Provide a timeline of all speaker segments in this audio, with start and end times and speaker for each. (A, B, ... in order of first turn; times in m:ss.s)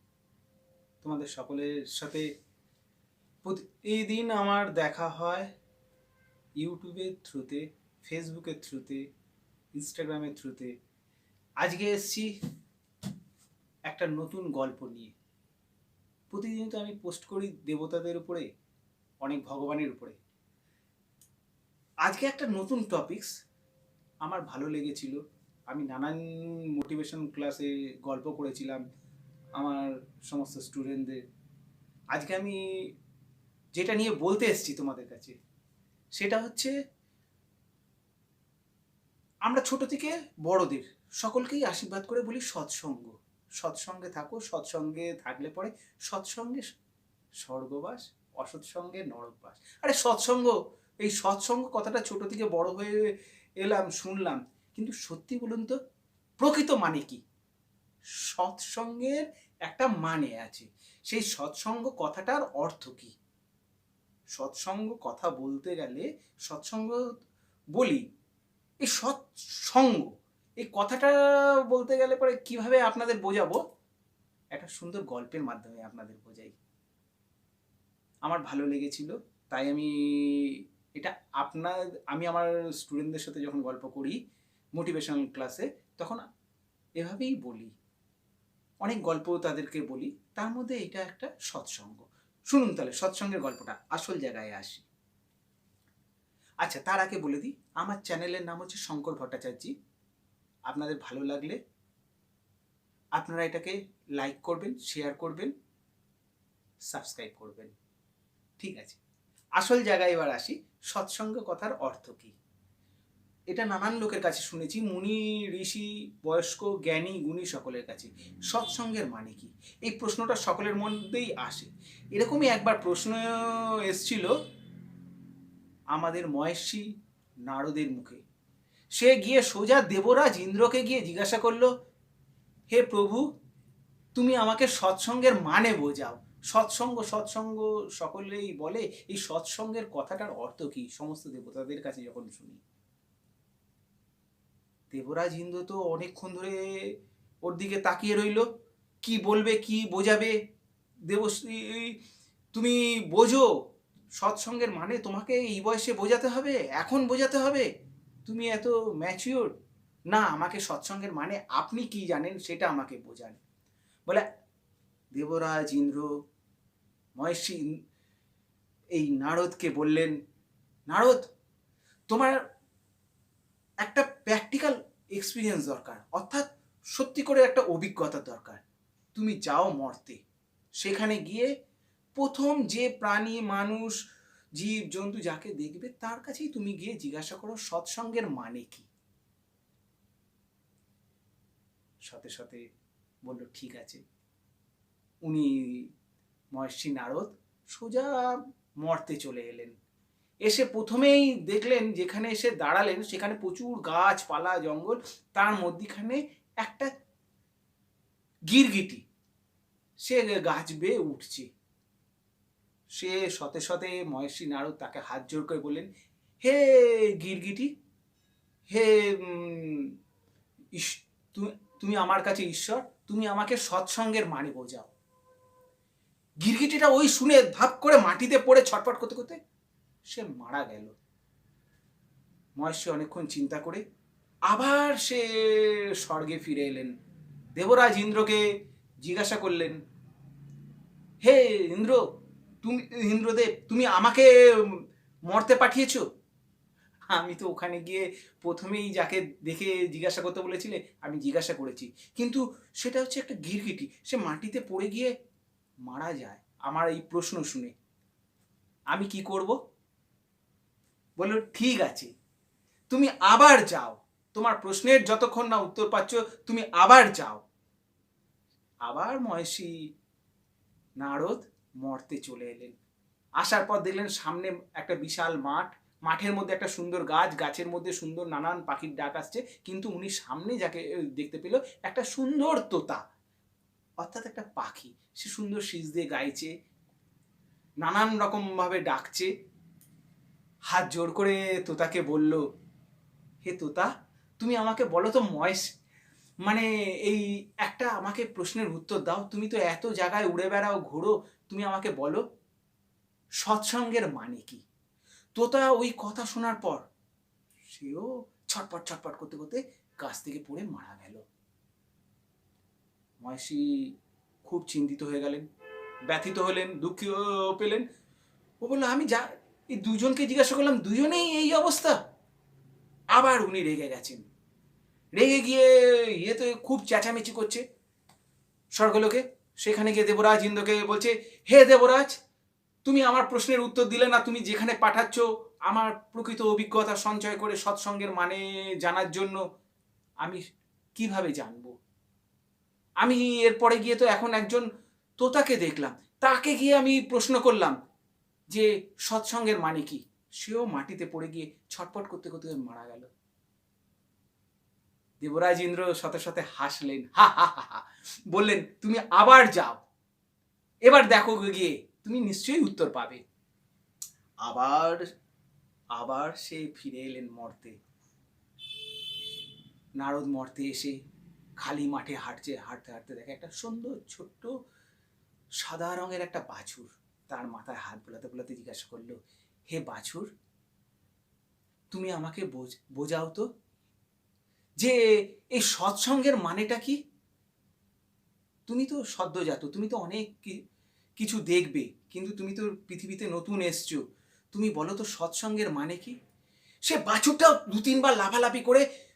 0:01.0-0:02.3 A
0:03.4-0:05.5 A
0:06.6-0:09.0 A
0:09.7-0:10.7 A
0:11.6-0:12.3 A
0:13.9-0:15.2 A
0:16.3-0:18.5 A
0:19.2-0:20.2 A
0:22.0-0:23.3 A
0:24.2-0:25.2 A
0:25.7-0:28.8 A
0:29.6-0:31.2 A
0:32.1-0:32.6 A
0:33.7-0:35.4 A
0:36.2-0:36.7 A
0:39.4-0:46.7 A
0:47.4-0:55.8 A
0:56.4-0:57.2 A
0:58.2-1:03.2 A
1:04.3-1:07.1 A
1:07.7-1:08.0 A
1:08.8-1:13.6 A
1:14.5-1:16.6 A
1:18.2-1:24.2 A
1:24.8-1:26.2 A
1:27.0-1:27.7 A
1:28.8-1:34.9 A
1:36.6-1:39.7 A
1:40.7-1:41.6 A
1:43.2-1:45.5 A
1:46.9-1:47.7 A
1:48.6-1:49.0 A
1:49.6-1:52.4 A
1:53.5-2:04.3 A
2:05.9-2:06.9 A
2:07.5-2:08.2 A
2:08.9-2:11.7 A
2:12.7-2:13.3 A
2:14.2-2:22.6 A
2:24.9-2:28.5 A
2:29.0-2:30.4 A
2:31.1-2:32.0 A
2:32.5-2:33.5 A
2:34.2-2:37.7 A
2:38.3-2:39.5 A
2:40.1-2:43.4 A
2:45.1-2:46.1 A
2:47.2-2:47.6 A
2:48.9-2:50.1 A
2:50.9-2:51.3 A
2:52.1-2:52.4 A
2:53.8-2:58.6 A
2:59.2-3:00.2 A
3:00.8-3:01.5 A
3:02.2-3:04.0 A
3:04.6-3:08.9 A
3:12.1-3:12.6 A
3:13.2-3:14.0 A
3:15.2-3:15.9 A
3:16.5-3:19.7 A
3:20.4-3:26.9 A
3:28.5-3:29.0 A
3:30.0-3:31.5 A
3:32.9-3:35.9 A
3:36.4-3:37.7 A
3:38.7-3:39.9 A
3:40.7-3:44.9 A
3:46.4-3:49.4 A
3:50.1-3:50.9 A
3:52.6-3:53.8 A
3:54.5-3:56.9 A
3:57.6-3:58.4 A
3:59.0-3:59.8 A
4:01.2-4:02.0 A
4:02.6-4:06.0 A
4:07.1-4:15.1 A
4:15.9-4:17.7 A
4:18.9-4:19.6 A
4:21.2-4:22.1 A
4:22.9-4:27.4 A
4:28.8-4:29.7 A
4:31.0-4:32.8 A
4:33.4-4:43.0 A
4:44.0-4:46.5 A
4:47.8-4:49.3 A
4:50.7-4:52.4 A
4:53.4-4:55.7 A
4:56.4-5:02.2 A
5:03.4-5:04.6 A
5:05.4-5:06.8 A
5:07.7-5:11.2 A
5:13.2-5:13.9 A
5:14.4-5:15.4 A
5:16.1-5:17.8 A
5:18.6-5:22.0 A
5:23.1-5:24.2 A
5:25.2-5:27.6 A
5:28.7-5:32.1 A
5:32.8-5:39.4 A
5:41.0-5:41.7 A
5:43.0-5:44.6 A
5:45.2-5:47.8 A
5:48.5-5:53.1 A
5:55.2-5:59.8 A
6:00.8-6:03.2 A
6:04.4-6:05.0 A
6:05.9-6:07.8 A
6:10.0-6:11.0 A
6:11.6-6:14.5 A
6:15.6-6:19.2 A
6:19.7-6:20.3 A
6:21.9-6:23.5 A
6:24.8-6:27.0 A
6:28.7-6:30.6 A
6:31.2-6:34.0 A
6:34.5-6:36.2 A
6:36.8-6:38.9 A